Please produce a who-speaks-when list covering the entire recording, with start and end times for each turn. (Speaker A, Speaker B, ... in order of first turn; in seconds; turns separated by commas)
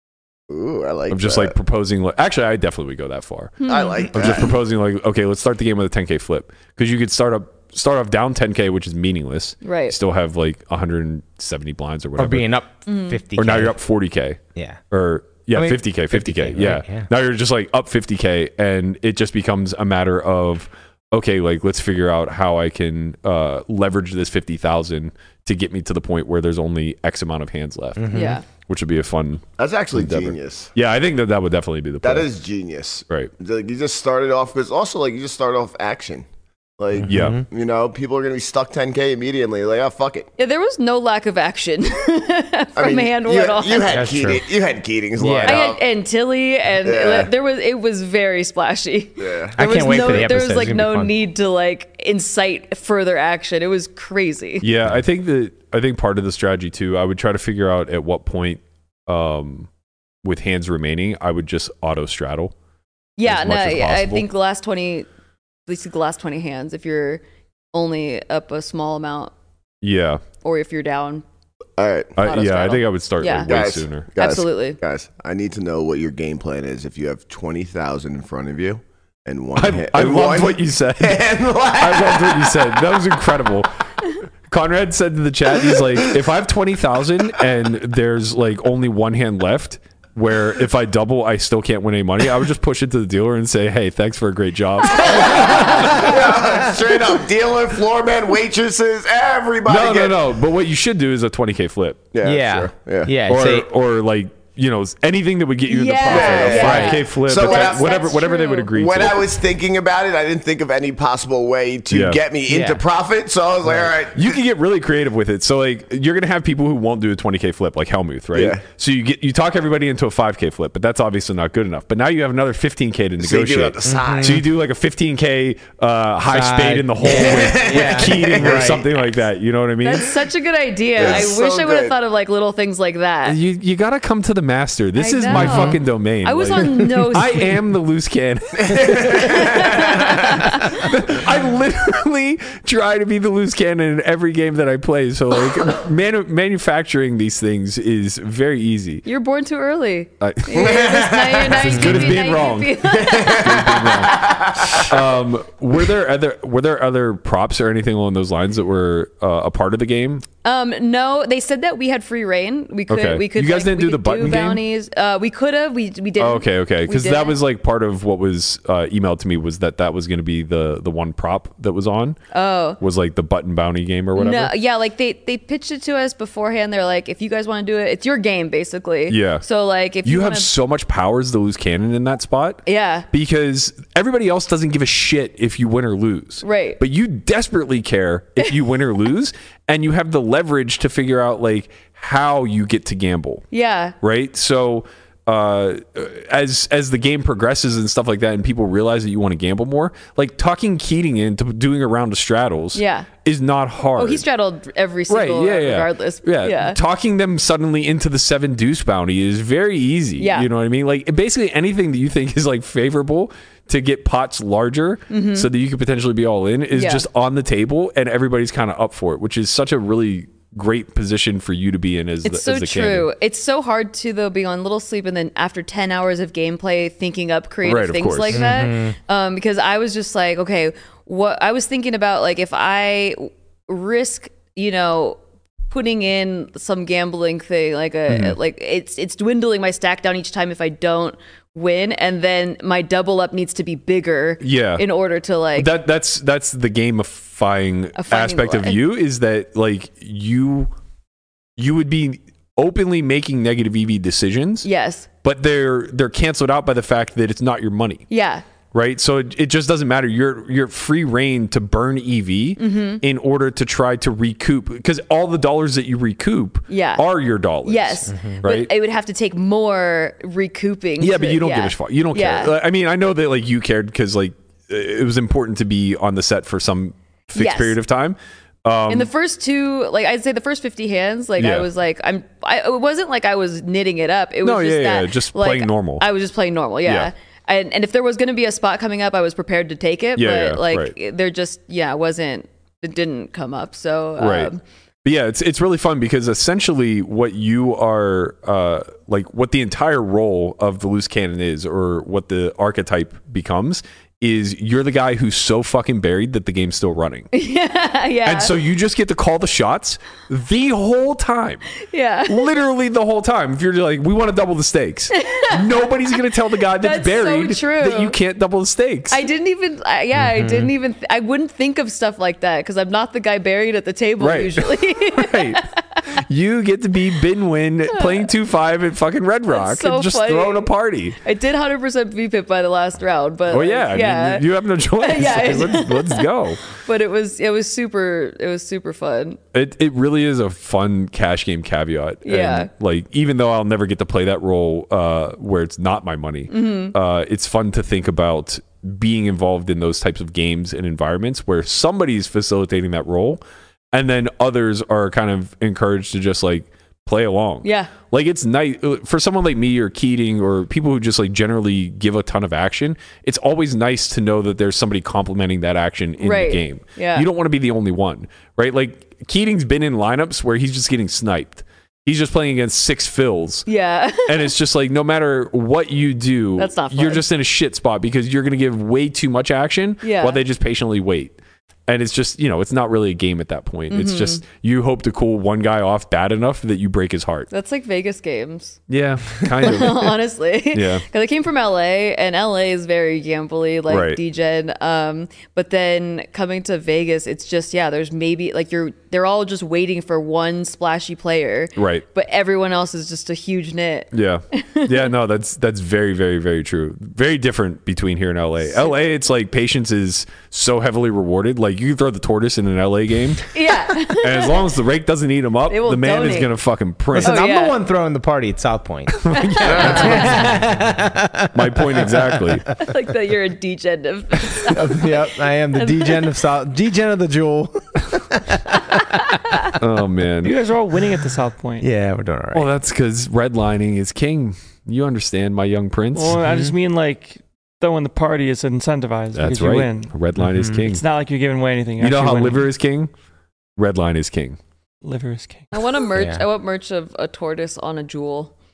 Speaker A: 0.5-1.5, Speaker B: 1.1-3.6, Speaker C: 3.6-4.1, Speaker A: 3.6-4.5, Speaker B: 4.1-12.5, Speaker C: 9.6-9.9, Speaker D: 12.2-13.8, Speaker C: 12.8-13.2, Speaker B: 13.4-14.4, Speaker B: 14.9-32.3, Speaker D: 15.5-17.1, Speaker D: 28.0-28.4, Speaker C: 28.1-28.4, Speaker A: 29.6-30.7, Speaker A: 32.0-36.2, Speaker A: 36.8-40.3, Speaker D: 37.0-37.4, Speaker B: 37.0-37.4, Speaker C: 40.4-44.1, Speaker A: 42.8-45.8, Speaker D: 43.9-44.4, Speaker D: 45.2-45.6, Speaker C: 45.4-54.6, Speaker A: 46.8-47.3, Speaker A: 49.2-50.2, Speaker D: 49.6-51.1, Speaker B: 54.6-59.7, Speaker B: 60.2-62.5, Speaker C: 63.2-65.1, Speaker B: 63.2-64.2, Speaker C: 65.7-69.3, Speaker B: 69.8-70.2, Speaker C: 70.4-71.2, Speaker A: 71.8-72.1, Speaker B: 72.2-74.1, Speaker C: 72.2-73.5, Speaker A: 73.5-82.8, Speaker C: 74.2-74.8, Speaker B: 79.5-83.7, Speaker B: 84.5-96.2, Speaker A: 94.9-100.2, Speaker D: 96.2-96.7, Speaker B: 99.7-102.0, Speaker A: 102.1-103.1, Speaker D: 102.2-103.7, Speaker B: 103.3-109.3, Speaker C: 105.7-108.7, Speaker A: 106.1-108.0, Speaker D: 106.6-106.9, Speaker A: 108.7-114.4, Speaker B: 111.9-112.2, Speaker D: 112.5-112.8, Speaker B: 114.1-130.1, Speaker A: 118.3-118.6, Speaker A: 123.2-124.4, Speaker D: 123.8-124.4, Speaker D: 126.3-128.8, Speaker A: 127.0-128.8, Speaker C: 129.8-133.4, Speaker A: 131.0-131.9, Speaker B: 133.2-149.1, Speaker C: 134.9-137.4, Speaker D: 135.3-135.8, Speaker A: 138.6-140.2, Speaker C: 139.2-140.9, Speaker C: 149.1-153.8, Speaker B: 150.2-150.6, Speaker A: 150.5-152.0, Speaker B: 151.6-152.8, Speaker D: 151.7-152.1, Speaker A: 152.8-155.0, Speaker B: 153.4-154.2, Speaker B: 154.7-160.2, Speaker C: 160.4-167.3, Speaker B: 162.9-164.6, Speaker B: 166.2-172.2, Speaker C: 172.3-172.8, Speaker B: 172.8-174.5, Speaker C: 174.2-180.5, Speaker B: 179.1-179.4, Speaker B: 180.0-193.4, Speaker C: 182.7-183.1, Speaker C: 186.4-186.8, Speaker C: 193.5-193.9, Speaker B: 194.0-204.2, Speaker C: 202.7-203.1, Speaker C: 204.0-206.8, Speaker B: 205.1-223.1, Speaker C: 210.2-210.5, Speaker C: 215.1-215.5, Speaker C: 216.7-217.0, Speaker C: 222.2-235.2, Speaker B: 227.6-228.5, Speaker D: 228.3-228.9, Speaker C: 235.7-245.7, Speaker B: 244.4-244.8, Speaker B: 245.6-250.7, Speaker C: 248.0-248.8, Speaker B: 251.6-254.7, Speaker C: 254.6-255.1, Speaker B: 255.2-258.1, Speaker C: 258.1-258.4, Speaker B: 258.7-268.7, Speaker C: 262.6-263.0, Speaker C: 266.7-267.0, Speaker C: 267.6-272.5, Speaker D: 268.1-268.4, Speaker B: 271.0-279.1, Speaker C: 277.3-277.8, Speaker C: 278.9-294.6, Speaker B: 281.4-281.7, Speaker B: 284.4-286.1, Speaker B: 286.8-287.1, Speaker B: 290.1-290.9, Speaker B: 294.2-294.5, Speaker B: 295.0-307.3, Speaker C: 307.3-308.5, Speaker B: 308.2-311.6, Speaker C: 311.8-312.5, Speaker B: 312.3-319.2, Speaker C: 315.1-315.6, Speaker C: 316.8-318.1, Speaker C: 319.1-325.7, Speaker D: 320.2-320.7, Speaker B: 324.2-325.6, Speaker B: 326.1-331.2, Speaker C: 327.9-328.3, Speaker C: 329.5-334.4, Speaker B: 333.5-336.6, Speaker C: 335.0-336.2, Speaker C: 336.8-339.4, Speaker B: 339.5-353.4, Speaker C: 342.2-342.7, Speaker C: 346.5-346.9, Speaker B: 353.9-373.6, Speaker C: 357.6-357.9, Speaker C: 366.2-367.2, Speaker C: 373.6-374.5, Speaker B: 374.2-381.4, Speaker C: 376.6-377.2, Speaker C: 380.0-380.4, Speaker B: 381.9-387.5, Speaker C: 383.9-384.4, Speaker C: 387.5-388.8, Speaker B: 388.9-390.1, Speaker C: 389.6-405.1, Speaker B: 390.7-391.0, Speaker B: 393.9-394.2, Speaker B: 401.8-402.0, Speaker B: 404.1-413.5, Speaker C: 408.6-408.9, Speaker C: 413.5-414.7, Speaker B: 414.0-417.4, Speaker C: 415.7-416.5, Speaker D: 417.1-422.6, Speaker C: 417.2-417.7, Speaker B: 419.2-420.4, Speaker C: 419.3-420.4, Speaker B: 421.5-422.7, Speaker C: 422.8-426.3, Speaker D: 424.7-429.2, Speaker B: 429.8-430.6, Speaker E: 430.4-431.9, Speaker D: 431.8-432.7, Speaker B: 432.5-436.4, Speaker E: 436.1-440.1, Speaker D: 436.4-436.7, Speaker B: 439.3-441.0, Speaker D: 440.4-440.8, Speaker E: 440.8-442.6, Speaker B: 442.0-443.1, Speaker B: 443.8-444.6, Speaker E: 445.0-445.7, Speaker C: 445.7-448.5, Speaker D: 446.1-446.4